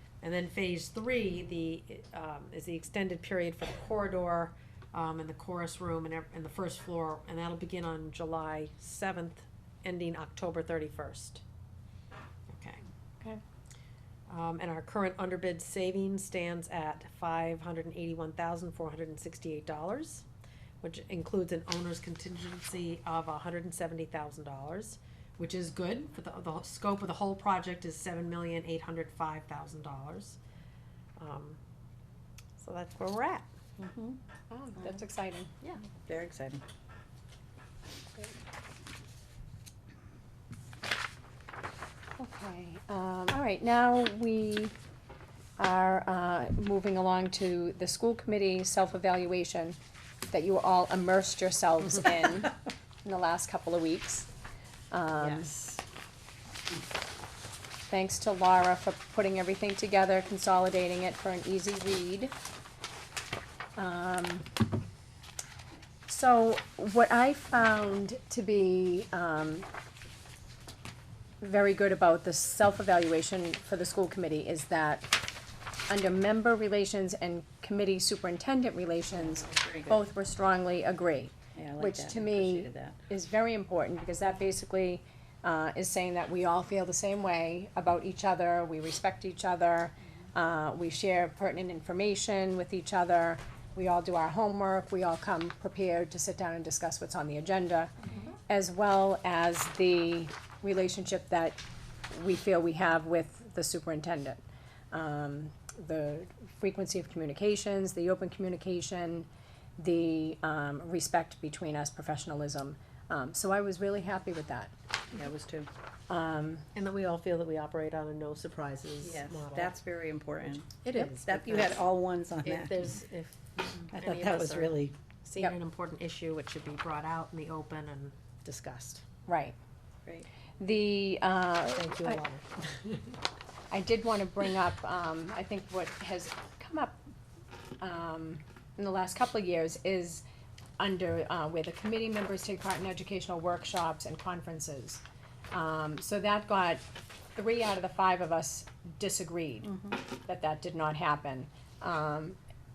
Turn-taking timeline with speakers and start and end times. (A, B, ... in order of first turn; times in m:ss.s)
0:00.2-0:11.4 A
0:12.5-0:12.8 A
0:14.3-0:20.2 A
0:20.8-0:30.4 A
0:31.2-0:31.6 A
0:32.6-0:33.5 A
0:33.8-0:34.2 B
0:34.5-0:35.5 C
0:36.0-0:36.6 B
0:42.2-0:44.8 C
0:45.6-0:54.3 C
0:54.9-0:55.5 C
0:57.9-1:02.3 C
1:03.8-1:04.6 C
1:06.1-1:09.7 C
1:11.4-1:15.2 C
1:15.9-1:37.9 C
1:19.2-1:20.0 B
1:21.5-1:23.0 B
1:38.5-1:44.4 C
1:44.9-1:54.7 C
1:55.1-1:55.7 B
1:56.1-1:56.6 C
1:56.7-1:59.7 A
1:59.0-2:02.9 B
2:00.8-2:01.8 A
2:02.4-2:09.0 A
2:03.9-2:04.9 B
2:09.3-2:09.5 C
2:10.6-2:12.2 C
2:11.7-2:13.0 A
2:13.7-2:17.0 C
2:17.8-2:20.2 C
2:20.8-2:32.4 C
2:29.6-2:30.0 B